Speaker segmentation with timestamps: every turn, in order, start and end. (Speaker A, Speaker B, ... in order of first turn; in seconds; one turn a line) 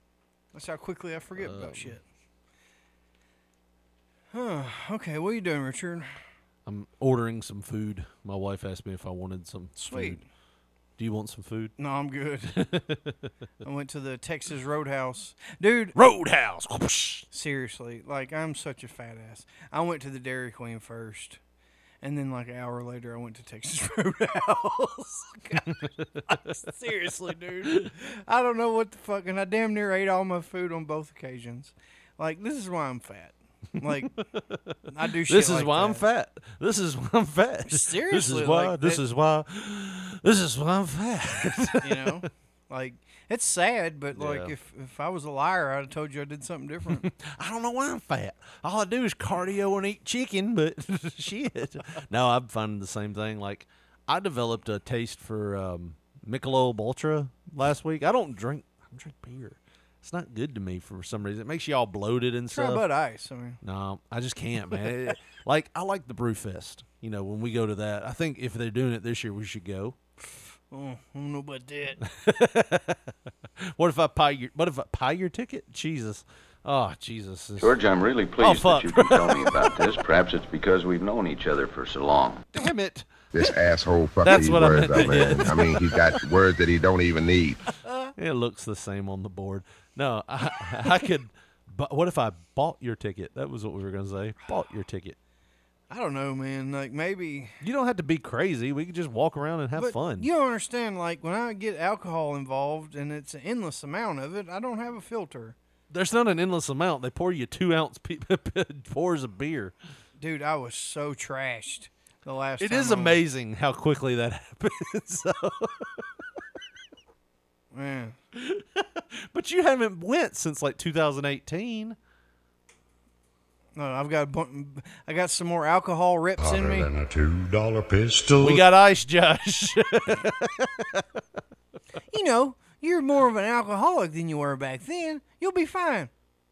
Speaker A: 0.5-2.0
Speaker B: 1.4-2.0
Speaker A: 4.3-6.1
Speaker B: 6.7-10.2
Speaker A: 9.8-10.2
Speaker B: 11.0-11.7
Speaker A: 11.8-12.7
Speaker B: 12.5-13.1
Speaker A: 13.6-15.9
Speaker B: 15.9-17.3
Speaker A: 17.3-21.4
Speaker A: 22.0-34.1
Speaker B: 33.8-34.7
Speaker A: 34.9-36.0
Speaker B: 35.2-42.2
Speaker A: 37.6-39.0
Speaker A: 41.8-47.1
Speaker B: 44.1-44.5
Speaker B: 46.9-62.8
Speaker A: 62.5-63.6
Speaker B: 63.6-70.0
Speaker A: 70.7-72.0
Speaker B: 72.0-77.8
Speaker C: 77.6-82.5
Speaker B: 78.4-79.9
Speaker B: 82.5-83.1
Speaker D: 83.3-87.6
Speaker B: 84.2-86.1
Speaker B: 88.2-95.2
Speaker A: 95.9-97.6
Speaker B: 97.6-100.3
Speaker A: 99.7-105.5
Speaker B: 105.9-109.7
Speaker A: 110.2-113.2
Speaker B: 112.6-116.0
Speaker A: 117.7-118.2
Speaker B: 118.3-122.0
Speaker A: 123.8-126.9
Speaker E: 126.4-128.6
Speaker B: 128.4-131.1
Speaker A: 132.1-136.1